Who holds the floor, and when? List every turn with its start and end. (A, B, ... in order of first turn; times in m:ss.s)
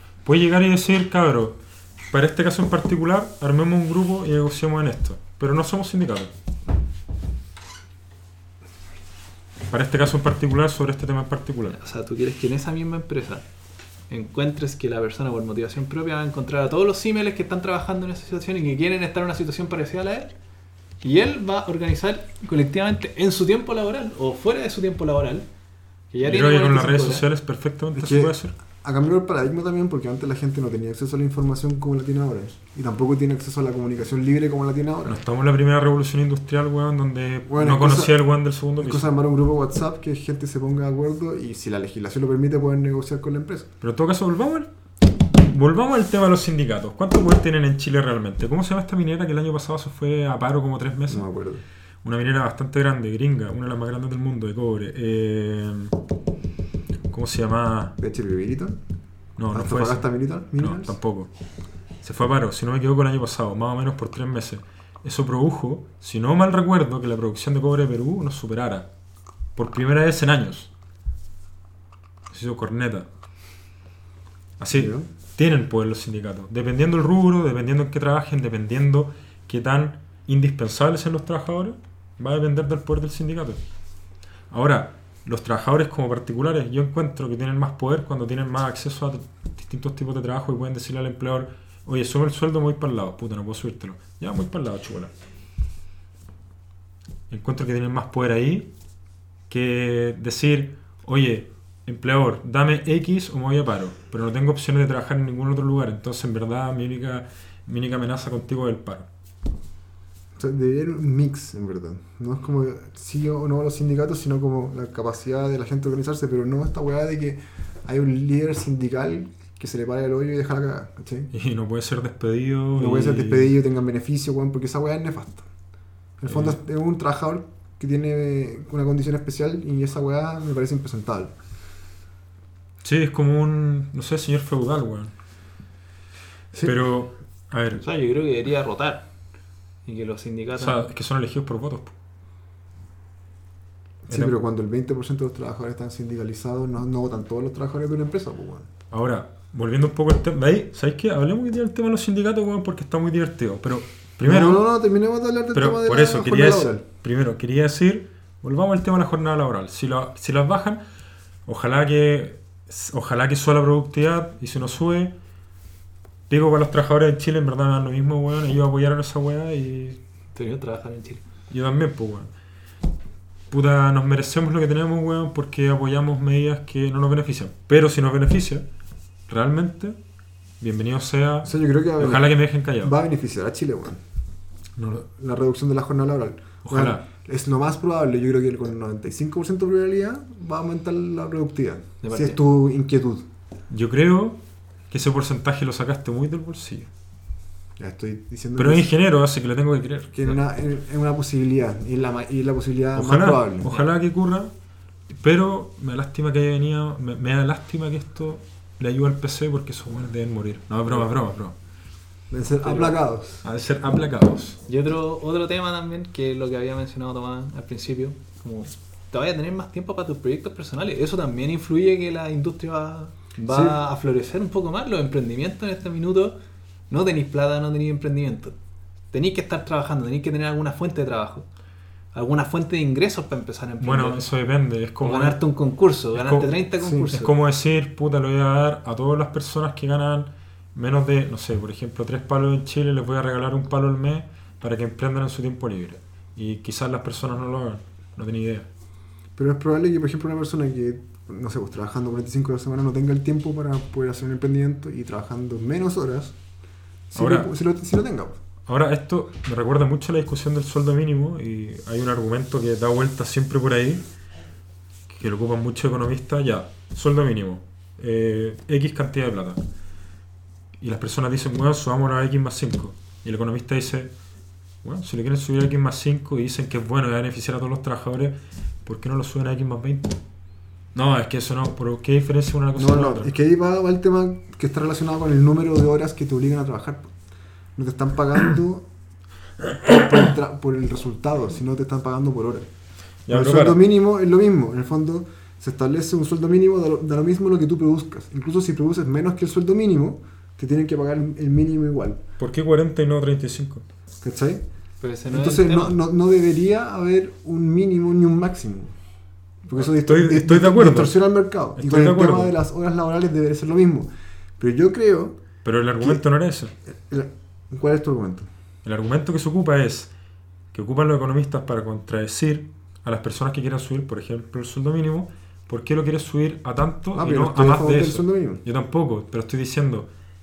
0:00.2-0:01.6 A
0:02.1-0:06.3 A
0:09.7-0:11.8 A
0:11.7-0:13.4 B
0:14.1-0:20.3 B
0:21.0-0:25.4 B
0:26.1-0:27.2 B
0:26.2-0:28.5 A
0:27.9-0:35.2 C
0:35.0-0:39.1 A
0:37.5-0:38.2 C
0:38.8-0:43.7 C
0:43.8-0:44.7 A
0:45.3-0:51.2 A
0:51.1-0:51.6 C
0:52.0-0:56.0 A
0:57.1-0:57.9 A
0:58.0-0:58.8 C
0:59.4-1:01.3 A
0:59.5-1:01.0 C
1:02.0-1:08.9 A
1:09.6-1:10.7 A
1:12.3-1:13.1 A
1:14.6-1:23.6 A
1:14.7-1:15.1 C
1:24.5-1:35.1 A
1:37.3-1:38.7 A
1:39.5-1:49.1 A
1:50.4-2:01.3 C
2:01.3-2:03.5 A
2:02.8-2:05.5 C
2:06.2-2:11.3 C
2:06.2-2:06.6 A
2:12.8-2:15.1 A
2:16.5-2:17.8 A
2:17.8-2:19.0 B
2:19.8-2:20.8 B
2:20.6-2:21.9 A
2:24.0-2:28.7 C
2:24.1-2:24.3 A
2:28.9-2:34.6 A
2:34.2-2:36.8 C
2:35.5-2:40.8 A
2:41.4-2:45.1 A
2:46.3-2:50.0 A
2:50.3-2:51.2 B
2:51.5-2:52.3 A
2:53.5-2:58.6 A
2:59.3-3:00.0 A
3:00.6-3:02.9 A
3:01.4-3:04.0 C
3:04.9-3:13.2 C
3:06.6-3:07.0 A
3:12.0-3:12.4 B
3:13.7-3:14.4 A
3:14.9-3:16.9 A
3:17.8-3:18.9 C
3:18.6-3:20.4 A
3:20.1-3:23.7 C
3:22.9-3:24.5 A
3:25.1-3:31.5 A
3:32.3-3:33.4 C
3:32.6-3:32.9 B
3:33.4-3:34.6 A
3:34.7-3:46.4 B
3:43.5-3:43.8 C
3:46.9-3:48.5 B
3:49.1-3:51.4 B
3:52.1-3:54.3 B
3:53.8-3:55.4 A
3:55.0-3:57.3 B
3:56.1-3:56.5 A
3:56.8-3:57.1 C
3:57.1-4:08.7 A
4:09.4-4:16.3 C
4:17.1-4:18.4 C
4:17.2-4:17.5 A
4:18.7-4:24.0 A
4:25.1-4:29.6 A
4:30.8-4:34.1 A
4:34.8-4:40.2 A
4:40.9-4:43.3 A
4:42.8-4:47.1 C
4:47.8-4:48.8 C
4:49.8-4:52.7 C
4:53.3-4:53.8 A
4:53.3-5:02.2 C
5:02.4-5:03.8 A
5:04.2-5:04.6 C
5:05.0-5:06.0 B
5:05.3-5:08.9 C
5:09.6-5:15.4 C
5:09.7-5:12.5 A
5:15.6-5:16.7 A
5:16.9-5:18.5 C
5:18.8-5:20.1 A
5:20.7-5:30.1 A
5:27.1-5:28.6 C